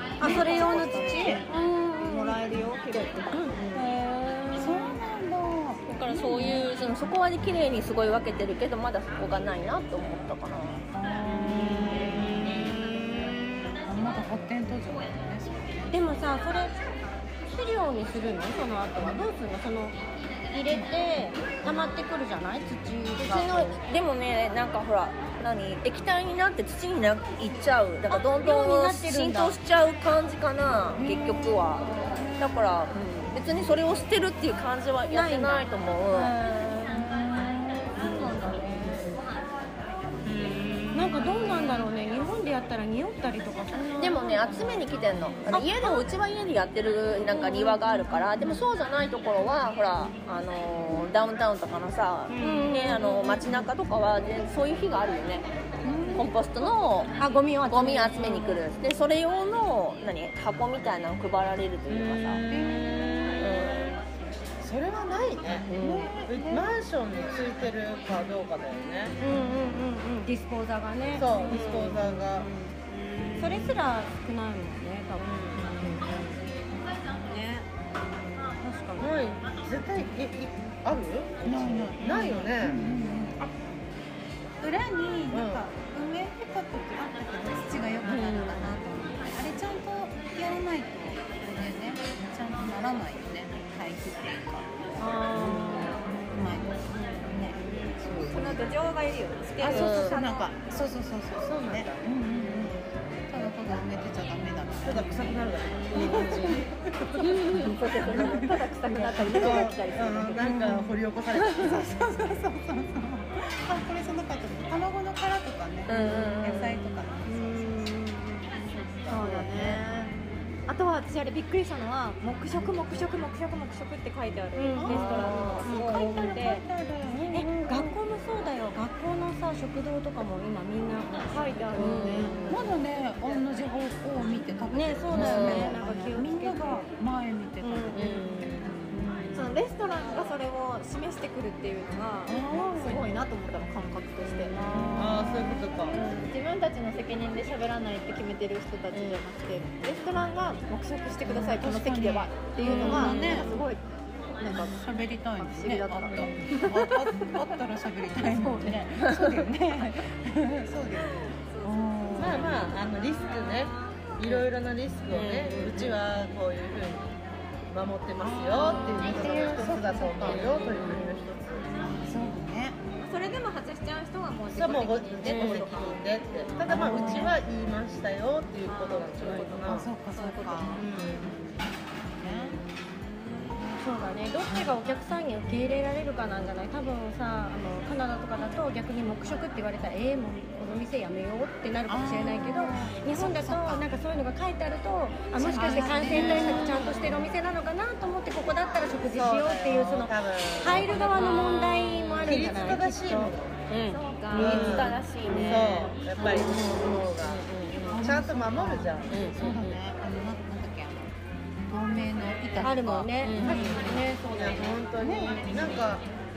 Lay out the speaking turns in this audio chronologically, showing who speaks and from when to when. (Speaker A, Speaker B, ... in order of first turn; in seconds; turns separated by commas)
Speaker A: 0.2-2.3, Speaker B: 0.2-3.3, Speaker C: 0.2-1.4, Speaker D: 0.2-0.7, Speaker D: 3.4-4.9, Speaker C: 3.7-4.0, Speaker C: 4.5-6.7, Speaker D: 5.9-10.8, Speaker C: 10.9-12.5, Speaker E: 11.4-13.3, Speaker C: 13.9-15.9, Speaker A: 15.9-16.8, Speaker A: 17.5-20.0, Speaker A: 20.5-23.8, Speaker D: 23.2-36.3, Speaker A: 28.3-29.6, Speaker C: 31.0-32.7, Speaker A: 35.1-39.2, Speaker D: 38.1-39.1, Speaker E: 40.3-41.1, Speaker D: 40.8-41.3, Speaker A: 40.9-44.9, Speaker D: 44.0-55.5, Speaker A: 45.5-46.1, Speaker A: 47.3-48.6, Speaker A: 52.3-53.4, Speaker C: 55.8-56.3, Speaker D: 56.1-57.2, Speaker A: 57.2-58.6, Speaker D: 57.7-62.5, Speaker E: 61.9-64.0, Speaker C: 62.5-63.4, Speaker D: 63.4-64.0, Speaker E: 64.6-65.7, Speaker D: 65.7-66.1, Speaker C: 65.7-66.7, Speaker E: 66.3-69.2, Speaker A: 69.2-72.7, Speaker E: 71.1-72.5, Speaker A: 73.3-76.3, Speaker E: 75.2-76.2, Speaker A: 77.2-77.7, Speaker A: 78.6-79.1, Speaker E: 79.0-82.8, Speaker C: 81.5-83.5, Speaker C: 84.6-98.6, Speaker E: 85.3-85.7, Speaker D: 88.0-88.8, Speaker D: 95.3-95.9, Speaker B: 98.3-100.5, Speaker C: 99.6-109.7, Speaker D: 99.7-100.2, Speaker E: 101.3-102.0, Speaker E: 104.8-106.6, Speaker D: 106.1-106.4, Speaker D: 107.2-108.4, Speaker B: 107.6-110.5, Speaker E: 109.3-111.9, Speaker C: 110.4-111.0, Speaker C: 111.5-118.0, Speaker D: 115.9-117.1, Speaker B: 117.2-118.5, Speaker D: 119.0-119.8, Speaker B: 119.1-120.1, Speaker B: 120.7-126.7, Speaker A: 124.6-126.4, Speaker C: 124.8-128.0, Speaker A: 127.3-132.5, Speaker B: 131.2-132.4, Speaker D: 131.8-132.7, Speaker C: 132.5-138.7, Speaker A: 134.7-136.9, Speaker D: 135.1-135.8, Speaker A: 137.6-138.1, Speaker D: 137.9-139.5, Speaker B: 139.3-145.3, Speaker C: 142.3-143.2, Speaker C: 144.6-145.9, Speaker E: 144.9-146.0, Speaker B: 145.9-153.8, Speaker D: 148.9-149.2, Speaker C: 151.3-153.5, Speaker D: 152.6-153.6, Speaker B: 154.4-154.8, Speaker C: 154.5-162.7, Speaker B: 155.4-157.2, Speaker D: 158.7-159.4, Speaker B: 161.3-164.0, Speaker E: 162.2-167.1, Speaker D: 165.1-166.0, Speaker E: 167.7-171.9, Speaker C: 168.2-170.5, Speaker B: 168.6-169.5, Speaker D: 170.2-171.1, Speaker B: 171.7-172.3, Speaker C: 171.9-172.8, Speaker B: 173.0-177.4, Speaker E: 174.5-179.9, Speaker D: 175.2-175.7, Speaker C: 176.7-177.3, Speaker B: 178.7-181.3, Speaker C: 179.7-180.9, Speaker E: 180.8-181.4, Speaker C: 182.1-182.6, Speaker B: 183.1-183.6, Speaker A: 183.8-203.3, Speaker C: 191.9-193.9, Speaker C: 195.4-197.1, Speaker D: 195.6-197.2, Speaker E: 199.1-201.5, Speaker D: 200.8-202.4, Speaker E: 202.2-203.6, Speaker D: 203.7-208.1, Speaker B: 203.9-206.0, Speaker E: 204.3-207.5, Speaker C: 207.9-211.1, Speaker E: 208.0-209.2, Speaker D: 209.1-209.8, Speaker C: 211.7-213.9, Speaker A: 212.6-214.8, Speaker D: 213.1-213.9, Speaker E: 213.4-216.1, Speaker C: 215.0-215.8